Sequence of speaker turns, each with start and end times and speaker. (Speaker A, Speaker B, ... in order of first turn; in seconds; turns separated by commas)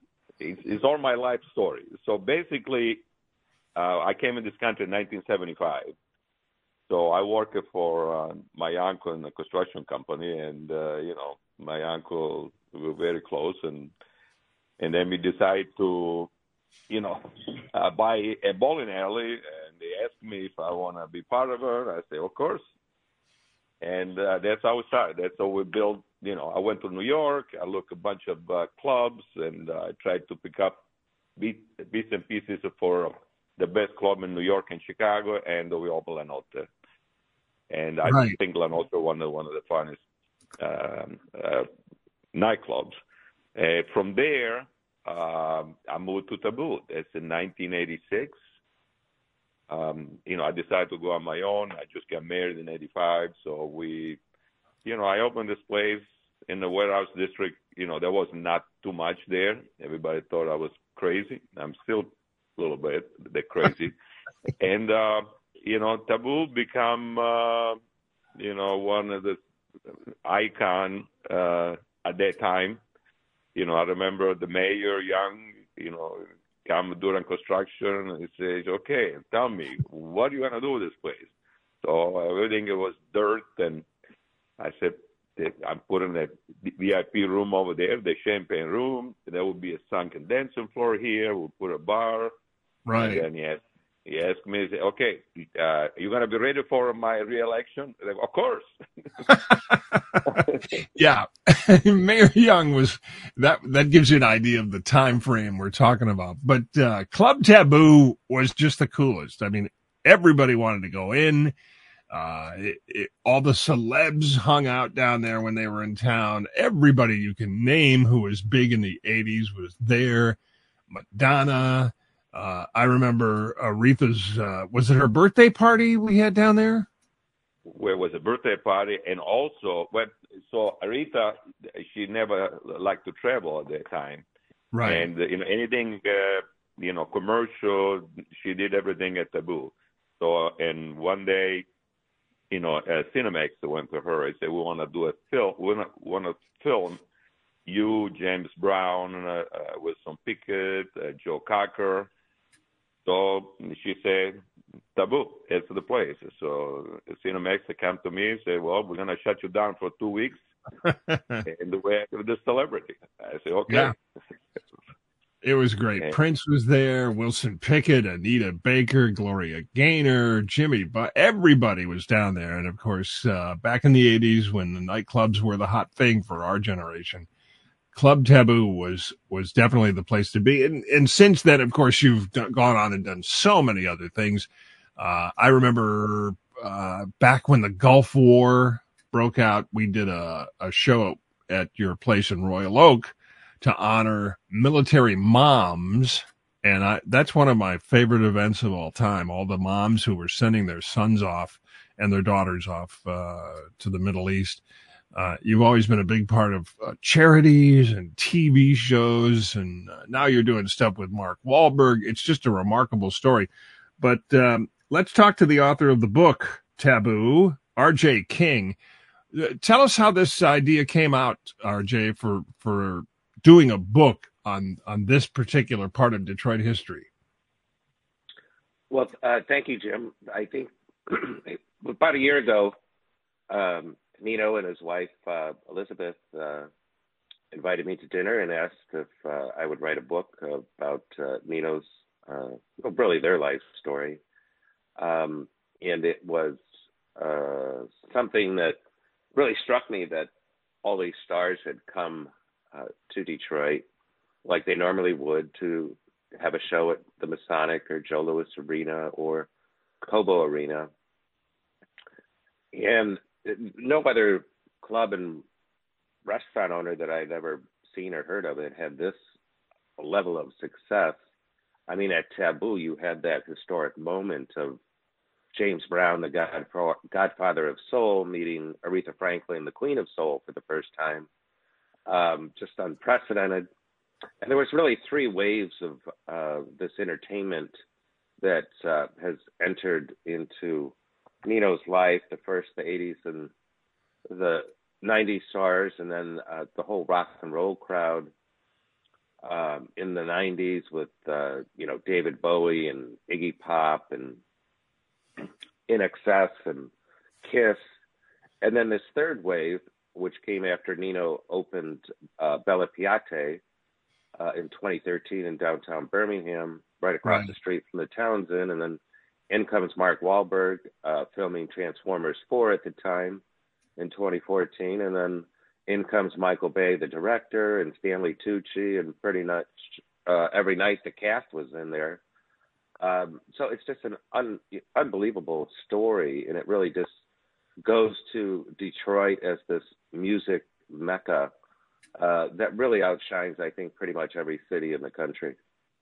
Speaker A: 0.4-3.0, Speaker A: 3.8-5.9, Speaker A: 6.9-13.9, Speaker A: 14.8-16.3, Speaker A: 16.9-22.6, Speaker A: 23.8-30.8, Speaker A: 31.4-36.7, Speaker A: 37.7-40.0, Speaker B: 38.0-38.4, Speaker A: 40.6-41.7, Speaker A: 42.3-43.0, Speaker A: 43.5-48.4, Speaker A: 49.7-54.2, Speaker A: 54.8-63.9, Speaker A: 64.6-67.8, Speaker A: 68.4-69.4, Speaker A: 70.2-72.8, Speaker A: 73.5-81.3, Speaker A: 81.8-83.9, Speaker A: 84.6-92.3, Speaker B: 92.8-93.2, Speaker A: 92.9-98.7, Speaker B: 99.3-111.5, Speaker A: 100.2-100.6, Speaker B: 112.1-120.4, Speaker B: 120.9-126.9, Speaker A: 127.7-134.2, Speaker B: 134.7-135.1, Speaker A: 134.8-141.6, Speaker A: 142.5-147.0, Speaker A: 147.7-152.1, Speaker A: 153.0-154.4, Speaker A: 154.9-160.4, Speaker B: 160.8-161.4, Speaker A: 161.4-163.9, Speaker B: 163.7-163.9, Speaker B: 165.4-177.3, Speaker B: 177.9-204.6, Speaker B: 205.1-213.5, Speaker B: 214.0-218.8, Speaker B: 219.3-227.1, Speaker C: 228.9-232.8, Speaker C: 233.5-236.7, Speaker C: 237.5-244.2, Speaker C: 245.0-246.6, Speaker C: 247.2-248.8, Speaker C: 249.3-250.3, Speaker C: 250.8-253.8, Speaker C: 254.4-259.5, Speaker C: 260.0-260.9, Speaker C: 262.7-265.4, Speaker C: 266.2-269.2, Speaker C: 270.0-271.2, Speaker C: 271.9-274.8, Speaker C: 275.5-281.3, Speaker C: 282.1-283.7, Speaker C: 284.4-287.7, Speaker C: 288.4-293.5, Speaker C: 294.3-298.3, Speaker C: 299.4-304.4, Speaker C: 305.9-306.9, Speaker C: 307.4-307.8, Speaker C: 308.6-313.6, Speaker C: 314.4-323.4, Speaker B: 317.2-317.5, Speaker C: 324.0-332.2, Speaker C: 333.0-337.1, Speaker C: 337.8-341.5, Speaker C: 342.2-345.6